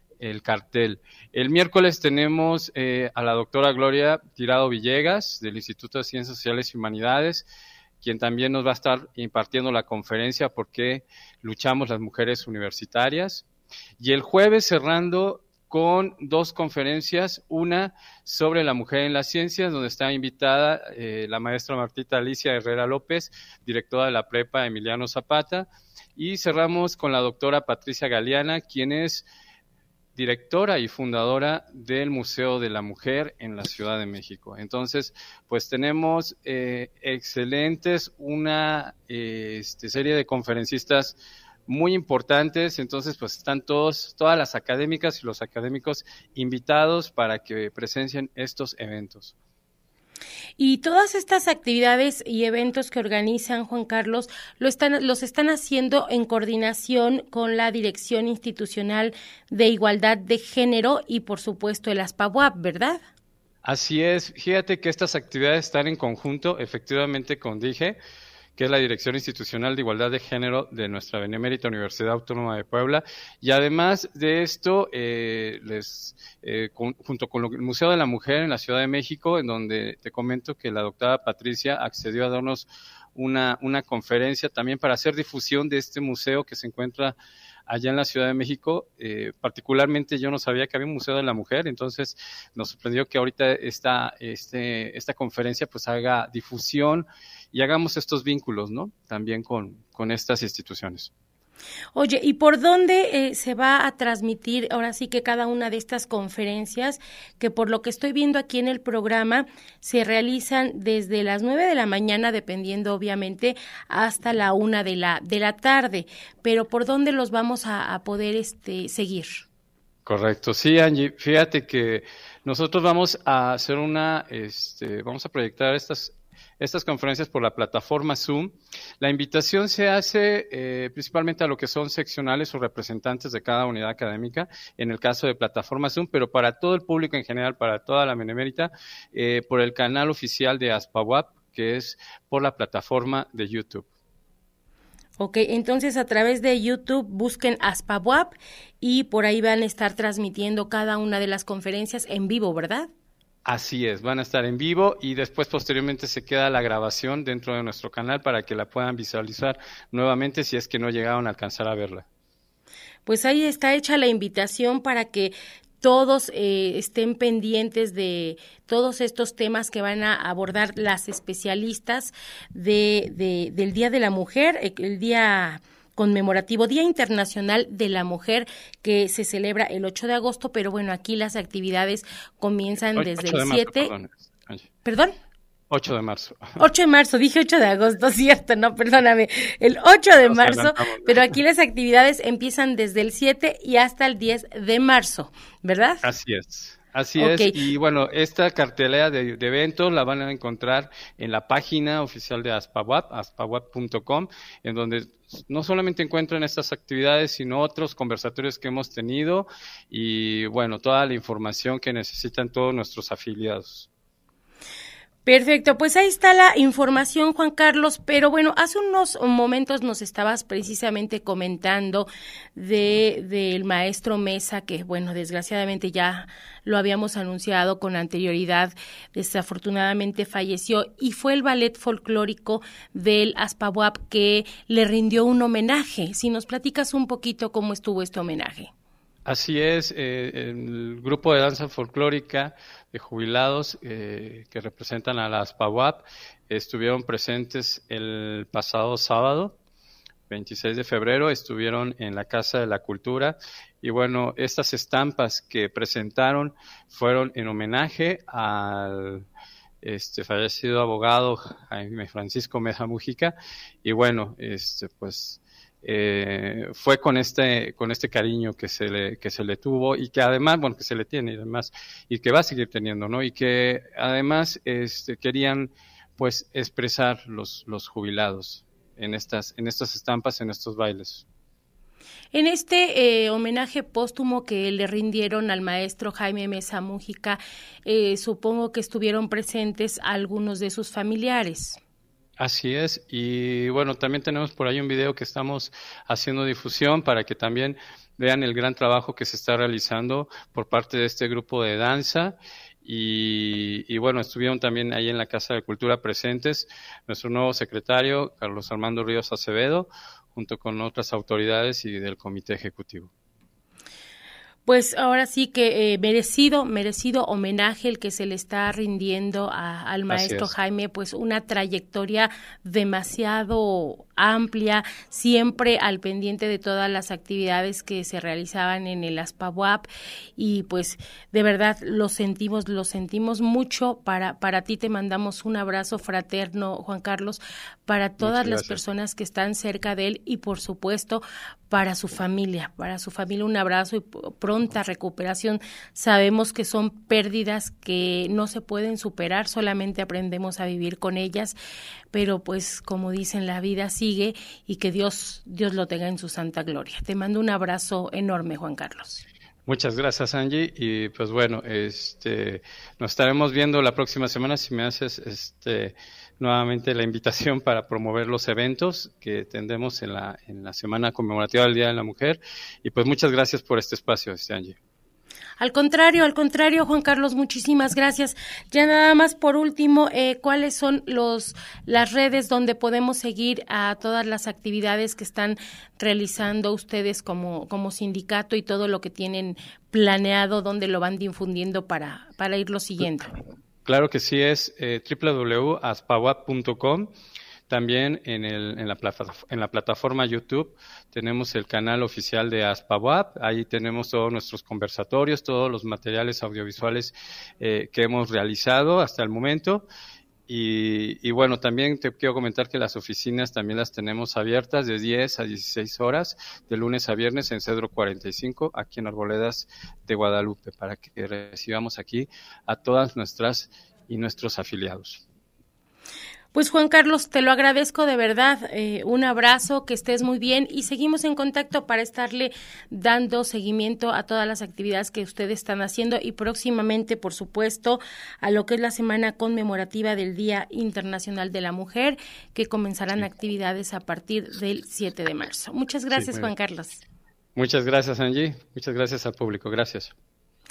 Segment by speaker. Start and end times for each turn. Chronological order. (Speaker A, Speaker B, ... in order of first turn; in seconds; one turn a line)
Speaker A: 0.2-7.5
Speaker A: 8.0-13.4
Speaker A: 14.0-29.3
Speaker A: 30.2-49.3
Speaker B: 50.6-63.0
Speaker A: 63.6-68.0
Speaker A: 68.6-87.1
Speaker A: 87.7-101.1
Speaker B: 101.9-119.4
Speaker A: 120.0-143.8
Speaker B: 145.2-152.9
Speaker A: 153.4-162.0
Speaker B: 163.0-183.9
Speaker A: 182.9-184.7
Speaker B: 184.8-185.1
Speaker A: 185.7-186.6
Speaker B: 186.6-196.0
Speaker A: 190.3-191.3
Speaker A: 196.0-213.9
Speaker B: 197.2-197.6
Speaker B: 215.2-238.7
Speaker A: 239.2-249.6
Speaker A: 250.3-259.3
Speaker A: 259.8-281.2
Speaker B: 282.3-291.8
Speaker A: 292.4-313.1
Speaker B: 314.6-351.6
Speaker A: 320.1-320.5
Speaker A: 338.2-338.8
Speaker B: 352.1-359.2
Speaker A: 359.7-374.8
Speaker B: 375.6-393.4
Speaker A: 393.9-397.1
Speaker A: 397.7-409.9
Speaker A: 410.5-425.2
Speaker B: 426.5-447.0
Speaker A: 446.1-446.5
Speaker A: 447.5-450.1